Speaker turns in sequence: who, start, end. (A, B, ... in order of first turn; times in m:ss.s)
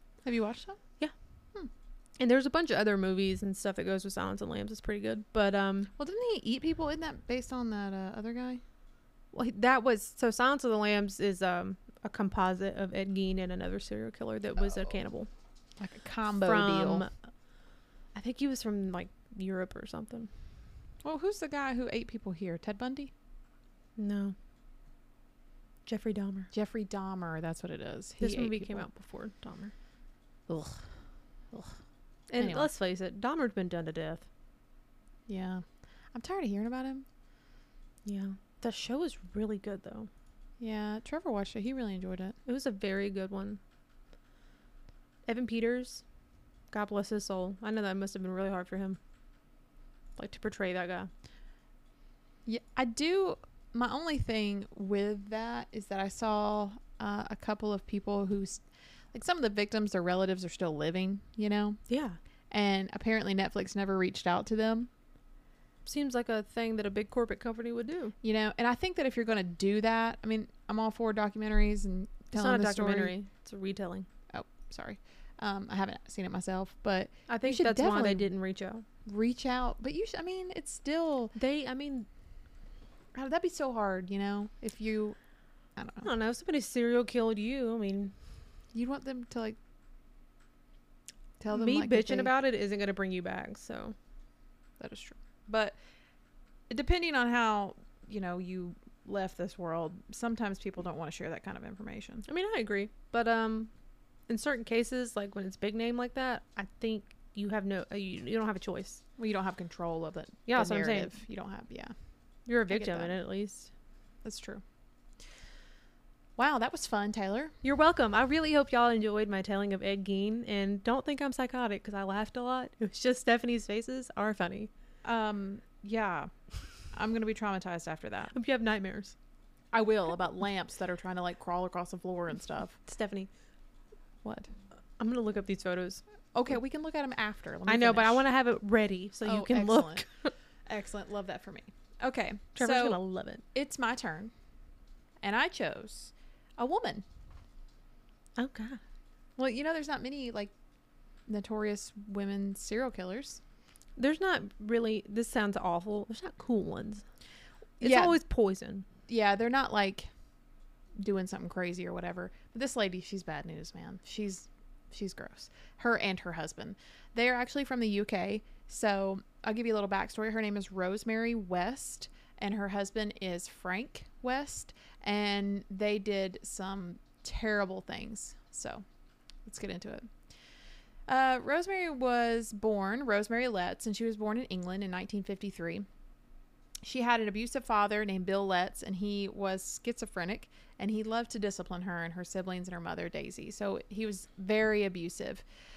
0:00.2-0:00.8 A
0:02.2-0:05.9 B
0:06.0-0:08.6 A
0:09.3-0:15.3 B
0:15.8-0:17.1 A
0:16.4-0:17.1 B
0:18.1-0:20.3 B
0:21.0-0:23.1 A
0:24.0-0:24.3 B
0:25.8-0:26.5 B
0:26.5-0:28.8 A
0:28.2-0:29.7 B
0:30.5-0:30.8 A
0:32.3-0:34.3 B
0:32.4-0:32.7 A
0:35.3-0:37.0 A
0:38.0-0:40.1 B
0:40.6-0:42.4 A
0:42.4-0:43.6 B
0:45.3-0:46.0 B
0:46.7-0:49.0 B
0:50.2-0:51.1 B
0:52.4-1:01.8 A
1:01.9-1:02.2 B
1:02.5-1:04.9 A
1:05.8-1:08.1 B
1:08.2-1:13.1 A
1:12.3-1:14.1 B
1:14.3-1:18.3 A
1:17.3-1:18.8 B
1:19.0-1:21.3 A
1:21.3-1:22.1 B
1:23.1-1:25.2 A
1:25.8-1:26.1 A
1:26.0-1:28.1 B
1:28.7-1:29.6 A
1:31.4-1:32.3 A
1:31.5-1:33.9 B
1:34.8-1:35.8 A
1:36.7-1:42.2 A
1:42.2-1:43.7 B
1:44.3-1:49.0 B
1:49.2-1:51.9 A
1:50.5-1:51.2 B
1:52.5-1:53.7 B
1:52.7-1:53.1 A
1:54.2-1:54.6 A
1:56.4-1:57.5 A
1:57.6-2:04.7 B
2:05.0-2:06.3 A
2:06.9-2:08.3 A
2:08.3-2:09.1 B
2:09.7-2:12.8 A
2:12.8-2:13.3 B
2:14.2-2:14.5 A
2:15.0-2:16.0 B
2:16.3-2:18.2 A
2:17.7-2:20.3 B
2:19.2-2:20.0 A
2:20.6-2:23.0 A
2:22.6-2:23.4 B
2:23.5-2:24.3 A
2:25.2-2:27.0 A
2:28.4-2:28.8 B
2:29.4-2:30.5 A
2:31.3-2:33.4 A
2:34.0-2:37.0 B
2:37.8-2:38.2 A
2:37.8-2:38.8 B
2:39.1-2:40.1 A
2:41.0-2:58.8 A
2:59.4-3:00.1 A
3:01.1-3:05.8 A
3:06.8-3:15.4 A